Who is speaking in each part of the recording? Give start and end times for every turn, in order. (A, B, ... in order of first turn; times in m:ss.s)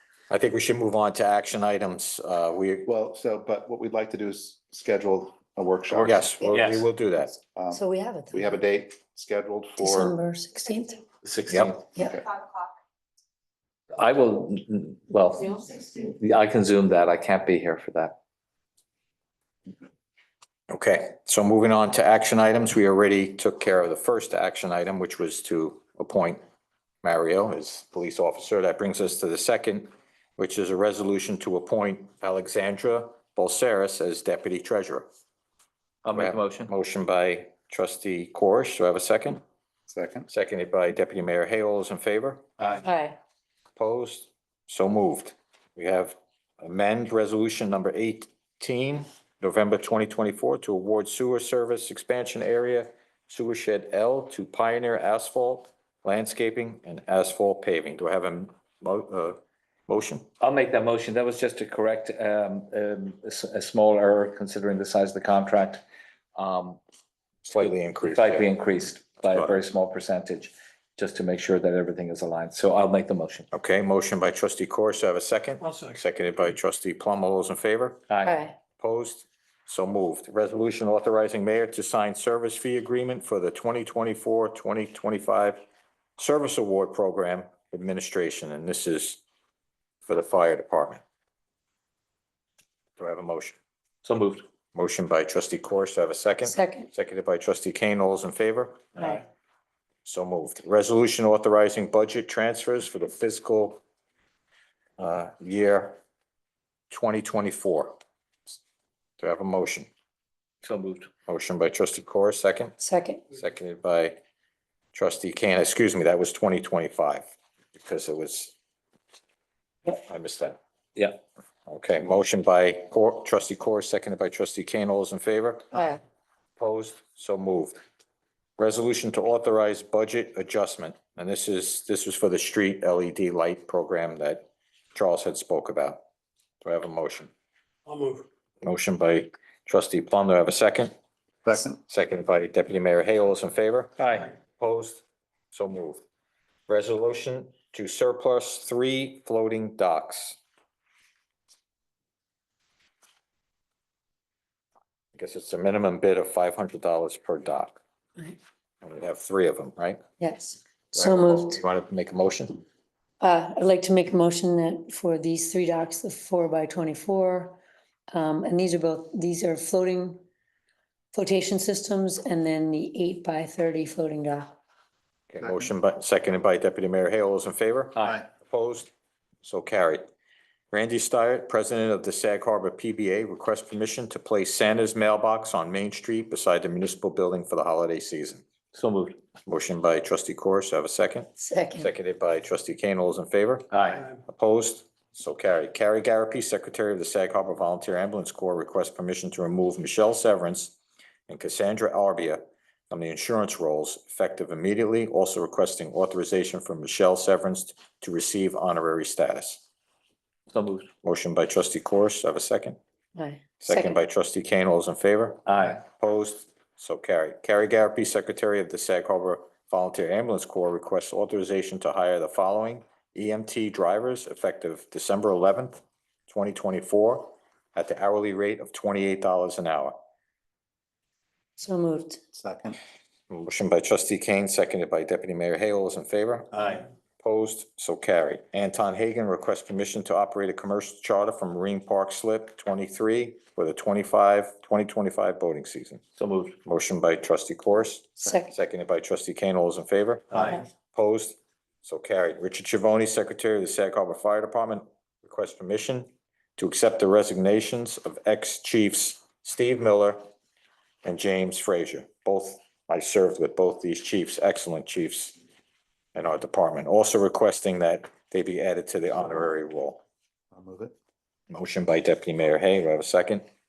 0:00.3-0:02.9 A
0:02.8-0:06.3 B
0:05.9-0:06.9 C
0:06.0-0:07.4 A
0:07.5-0:10.2 B
0:07.7-0:08.6 D
0:09.8-0:11.0 D
0:11.2-0:11.8 C
0:11.9-0:12.2 D
0:14.0-0:18.2 C
0:20.7-0:26.4 A
0:27.0-0:35.0 A
0:36.0-0:36.7 C
0:36.1-0:39.4 A
0:39.9-0:40.3 B
0:40.3-0:42.4 A
0:42.6-0:42.8 C
0:42.8-0:43.2 D
0:43.8-1:00.2 A
1:00.4-1:05.8 C
1:06.4-1:06.8 C
1:07.4-1:08.6 A
1:07.5-1:13.5 C
1:09.3-1:09.6 A
1:13.5-1:18.0 A
1:18.1-1:18.4 C
1:18.2-1:18.6 D
1:18.8-1:25.6 A
1:26.2-1:29.2 A
1:30.1-1:31.0 A
1:33.0-1:33.6 A
1:34.0-1:34.4 C
1:34.7-1:38.9 A
1:36.4-1:36.9 D
1:40.0-1:43.8 A
1:45.0-1:46.0 A
1:46.9-1:48.0 A
1:49.2-1:49.9 A
1:50.6-1:51.1 C
1:51.3-1:52.8 A
1:52.8-1:53.2 D
1:53.3-1:54.2 A
1:54.9-1:58.5 A
1:59.9-2:00.6 A
2:01.7-2:05.8 A
2:05.7-2:06.0 D
2:06.6-2:07.8 A
2:08.6-2:16.0 A
2:16.6-2:17.3 A
2:18.6-2:20.9 A
2:21.4-2:21.8 B
2:21.9-2:26.0 A
2:24.0-2:24.3 C
2:26.7-2:30.4 A
2:35.1-2:37.8 A
2:38.8-2:40.0 A
2:40.2-2:41.6 D
2:40.9-2:42.6 A
2:43.2-2:47.6 D
2:48.1-2:50.2 D
2:51.1-2:54.5 D
2:55.3-2:58.9 A
2:57.9-2:58.2 C
2:59.4-3:00.0 A
3:00.7-3:08.4 A
3:08.7-3:09.2 C
3:09.4-3:20.7 A
3:11.4-3:11.9 D
3:13.7-3:14.1 C
3:21.3-3:29.6 A
3:30.5-3:30.9 C
3:31.0-3:32.8 A
3:33.2-3:34.0 D
3:33.6-3:50.0 A
3:35.4-3:35.8 C
3:51.6-3:52.2 D
3:52.3-3:52.8 B
3:53.3-4:06.0 A
4:06.2-4:06.6 C
4:06.6-4:20.2 A
4:08.2-4:08.5 D
4:10.3-4:10.6 C
4:21.0-4:25.4 A
4:26.1-4:30.0 A
4:30.5-4:30.9 B
4:31.5-4:33.4 A